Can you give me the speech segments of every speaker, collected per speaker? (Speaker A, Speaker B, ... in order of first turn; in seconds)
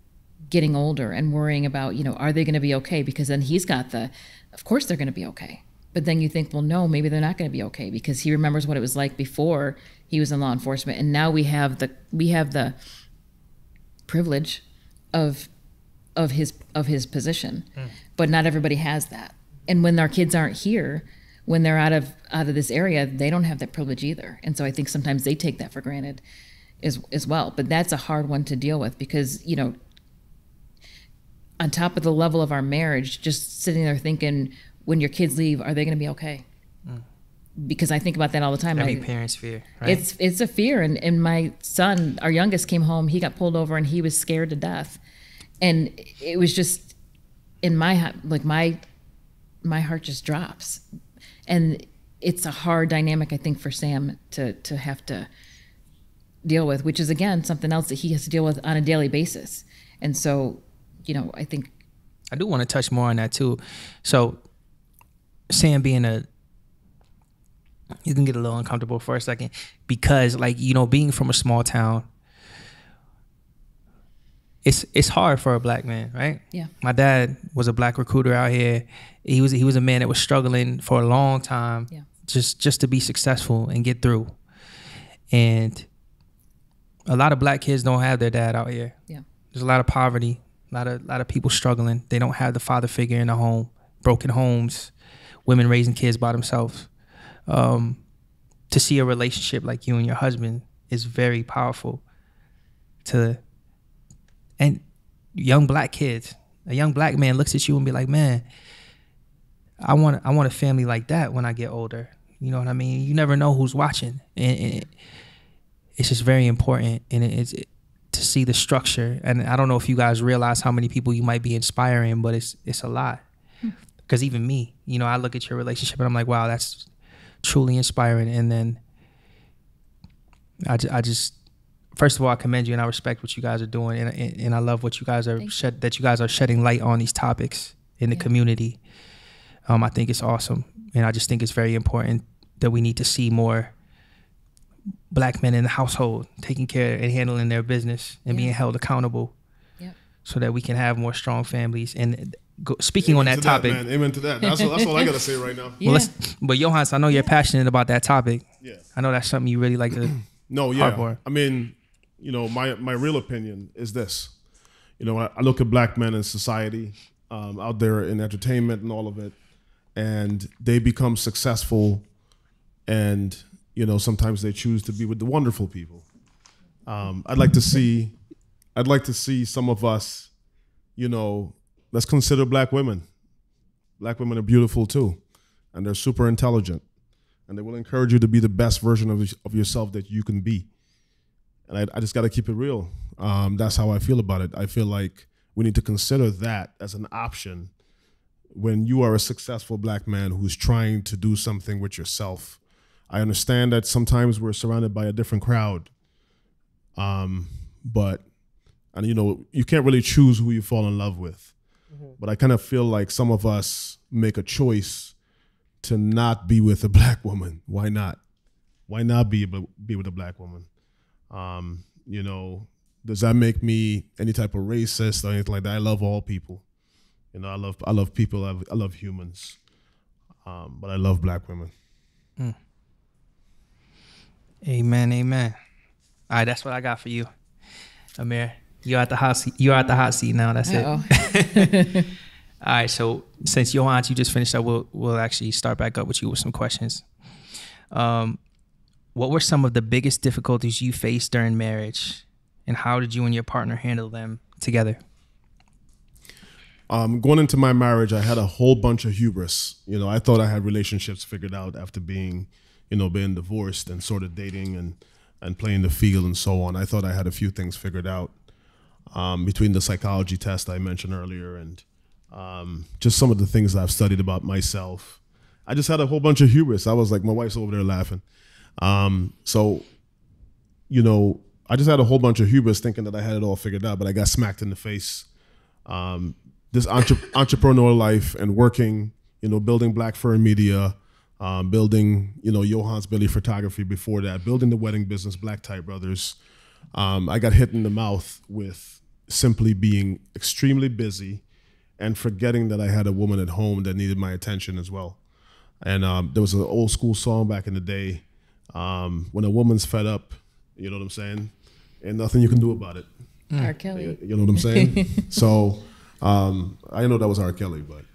Speaker A: 0.5-12.8, 14.1-14.6, 15.1-15.5, 16.1-26.2, 26.8-29.8, 31.6-36.4, 37.6-39.0, 39.8-45.0, 45.6-46.9, 47.6-48.8, 49.6-50.8, 51.5-55.3, 56.4-61.7, 154.4-155.1, 155.8-156.1, 240.7-242.1, 313.6-315.2
Speaker B: 38.8-40.0, 62.3-64.4, 65.5-66.2, 68.0-72.1, 74.6-84.3, 85.3-85.9, 87.1-88.9, 89.5-94.9, 95.5-96.9, 97.5-98.0, 98.7-102.0, 103.0-103.4, 105.3-108.5, 109.8-114.9, 116.0-123.2, 124.1-126.9, 127.4-128.8, 130.6-131.3, 131.9-138.8, 139.7-143.7, 145.1-149.3, 150.2-153.8, 155.8-160.2, 160.7-161.2, 234.6-235.6, 236.3-237.3, 238.2-241.8, 242.6-247.0, 247.9-248.4, 249.1-255.0
Speaker C: 153.0-155.8, 160.5-164.3, 165.0-169.3, 169.9-172.1, 172.9-176.1, 176.8-178.2, 178.7-180.3, 180.9-183.0, 184.0-185.2, 185.7-186.8, 187.5-190.7, 191.7-197.7, 198.5-205.9, 206.9-208.2, 208.9-211.5, 212.2-215.1, 215.8-218.2, 218.9-220.7, 221.3-226.6, 227.3-229.6, 230.4-231.7, 256.9-268.3, 269.1-278.2, 278.8-279.9, 280.9-285.3, 285.9-296.4, 296.9-301.4, 302.0-305.2, 305.8-313.1, 313.9-318.1